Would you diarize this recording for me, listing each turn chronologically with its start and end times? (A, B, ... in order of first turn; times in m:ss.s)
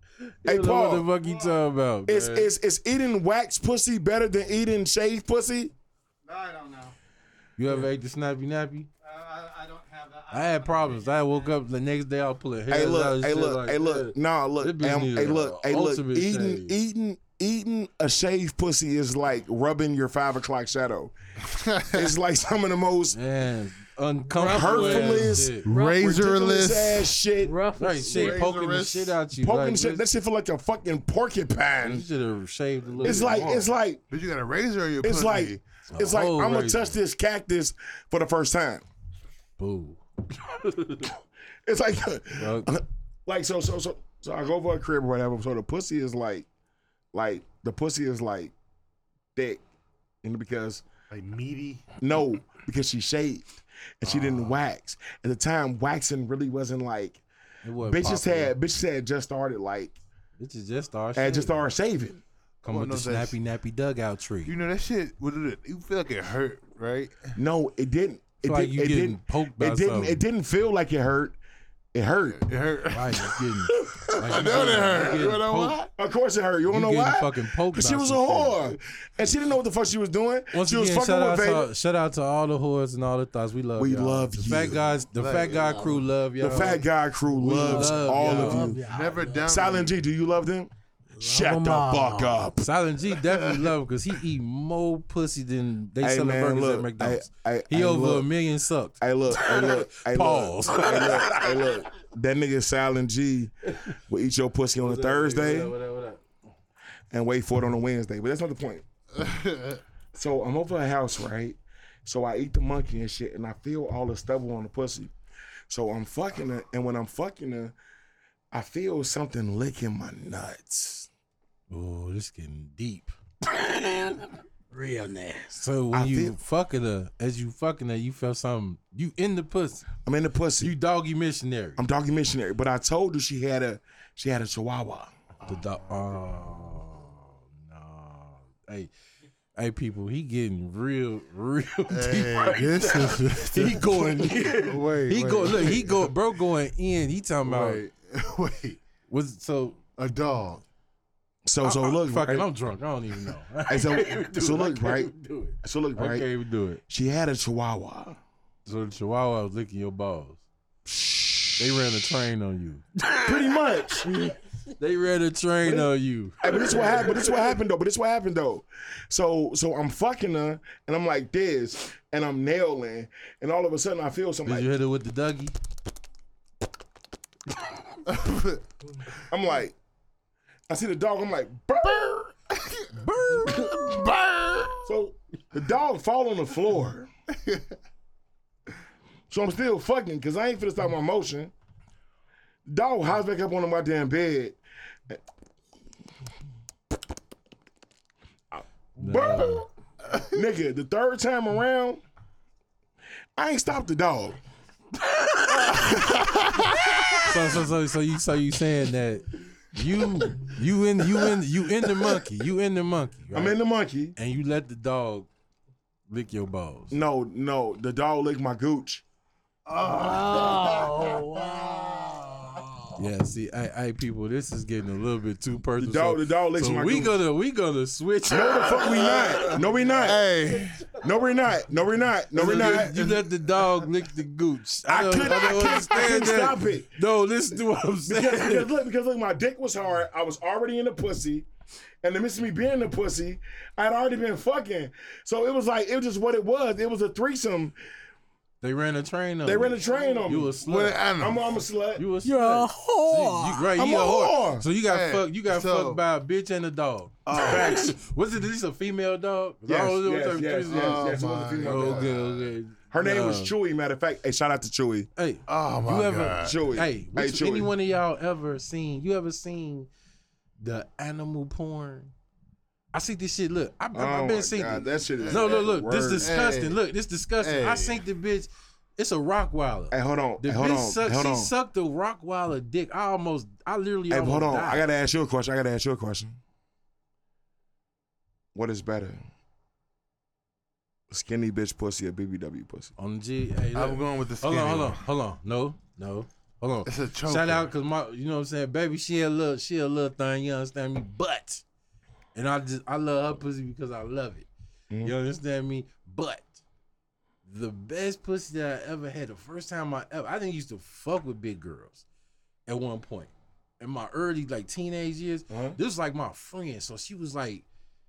0:00.4-0:01.1 A
0:00.4-0:02.5 B
0:01.2-0:01.6 C
0:02.1-0:05.7 A
0:06.2-0:06.9 C
0:07.6-0:08.9 B
0:09.0-0:11.5 C
0:10.3-0:16.8 B
0:12.7-0:21.1 A
0:21.4-0:22.1 D
0:21.9-0:23.2 A
0:23.1-0:25.7 B
0:24.3-0:26.3 E
0:24.4-0:27.6 A
0:25.3-0:27.1 D
0:27.4-0:28.4 E
0:27.8-0:30.0 B
0:28.1-0:29.2 D
0:29.4-0:32.0 A
0:31.8-0:33.7 B
0:33.0-0:34.0 A
0:33.0-0:33.5 D
0:34.1-0:35.6 D
0:35.0-0:38.8 A
0:35.9-0:37.0 B
0:39.6-0:41.1 B
0:41.6-0:46.5 A
0:42.4-0:42.7 B
0:47.1-0:48.5 A
0:49.4-0:49.6 A
0:50.2-0:50.9 A
0:51.1-0:51.9 D
0:52.0-0:57.2 A
0:54.0-0:54.6 D
0:57.6-0:58.5 B
0:57.8-1:00.0 A
1:00.4-1:01.6 B
1:01.2-1:02.2 A
1:02.6-1:04.5 B
1:02.7-1:03.4 D
1:04.5-1:07.3 D
1:07.4-1:11.4 A
1:08.4-1:10.2 B
1:11.9-1:12.4 A
1:12.3-1:15.9 D
1:12.9-1:15.9 B
1:16.0-1:21.7 A
1:16.7-1:18.6 B
1:20.5-1:28.7 B
1:23.8-1:24.9 A
1:23.9-1:26.7 D
1:26.4-1:28.8 A
1:27.4-1:30.0 D
1:27.6-1:29.5 E
1:29.5-1:32.7 A
1:31.2-1:32.4 E
1:32.6-1:41.6 B
1:33.2-1:33.7 D
1:36.0-1:38.3 A
1:39.0-1:45.7 A
1:44.8-1:46.2 B
1:47.1-1:48.8 A
1:49.2-1:49.8 D
1:50.1-1:55.1 A
1:55.7-1:57.8 A
1:58.5-2:01.1 A
2:01.7-2:03.2 B
2:03.7-2:04.1 E
2:04.7-2:05.6 E
2:05.5-2:09.9 B
2:05.9-2:06.4 A
2:10.0-2:10.7 A
2:10.6-2:11.8 B
2:11.8-2:15.1 A
2:15.4-2:16.3 D
2:15.4-2:18.9 B
2:19.6-2:27.8 B
2:21.9-2:26.1 D
2:27.5-2:28.8 D
2:29.1-2:29.8 B
2:30.0-2:30.6 D
2:31.5-2:32.5 A
2:31.6-2:36.8 B
2:33.7-2:36.3 A
2:36.9-2:38.2 A
2:38.7-2:40.4 B
2:40.9-2:42.1 A
2:41.6-2:43.3 B
2:43.2-2:44.1 A
2:44.1-2:47.2 B
2:45.6-2:54.7 A
2:54.4-2:55.6 B
2:58.1-2:58.6 D
2:59.3-2:59.8 A
3:00.7-3:02.3 A
3:02.6-3:02.9 D
3:02.9-3:04.0 B
3:03.5-3:04.9 D
3:04.8-3:07.1 A
3:07.4-3:07.7 D
3:09.3-3:11.5 A
3:12.7-3:15.2 A
3:18.5-3:19.7 A
3:19.0-3:19.6 B
3:20.3-3:22.0 A
3:23.4-3:24.4 A
3:25.6-3:27.4 A
3:27.2-3:33.6 B
3:31.8-3:32.1 A
3:33.3-3:34.2 A
3:34.2-3:35.3 B
3:36.1-3:36.9 B
3:36.9-3:39.0 A
3:39.7-3:41.2 D
3:39.8-3:42.4 E
3:43.0-3:49.6 B
3:45.8-3:47.2 A
3:48.3-3:50.3 A
3:49.1-3:51.0 D
3:50.9-3:53.0 A
3:52.3-3:58.7 B
3:52.4-3:53.9 D
3:54.9-3:57.0 A
3:58.1-4:01.5 A
4:02.0-4:07.8 A
4:08.6-4:11.0 B
4:09.4-4:10.6 A
4:10.6-4:11.4 D
4:11.2-4:12.0 A
4:12.0-4:23.5 B
4:12.2-4:13.7 E
4:13.8-4:14.7 A
4:14.8-4:16.0 D
4:17.3-4:17.9 D
4:17.4-4:17.8 A
4:19.7-4:22.3 A
4:20.7-4:22.3 D
4:22.9-4:25.1 A
4:25.2-4:29.9 B
4:25.5-4:26.6 D
4:26.4-4:27.7 A
4:30.6-4:32.1 B
4:32.9-4:44.9 B
4:33.9-4:36.4 A
4:35.2-4:36.8 D
4:37.4-4:38.0 D
4:39.9-4:41.5 A
4:44.1-4:46.4 A
4:48.6-4:49.2 A
4:51.1-4:52.9 A
4:53.0-5:01.6 B
4:53.8-4:55.0 D
4:56.9-4:57.7 D
5:02.4-5:04.5 B
5:05.0-5:06.6 B
5:07.4-5:12.0 B
5:12.7-5:17.6 B
5:15.5-5:15.8 A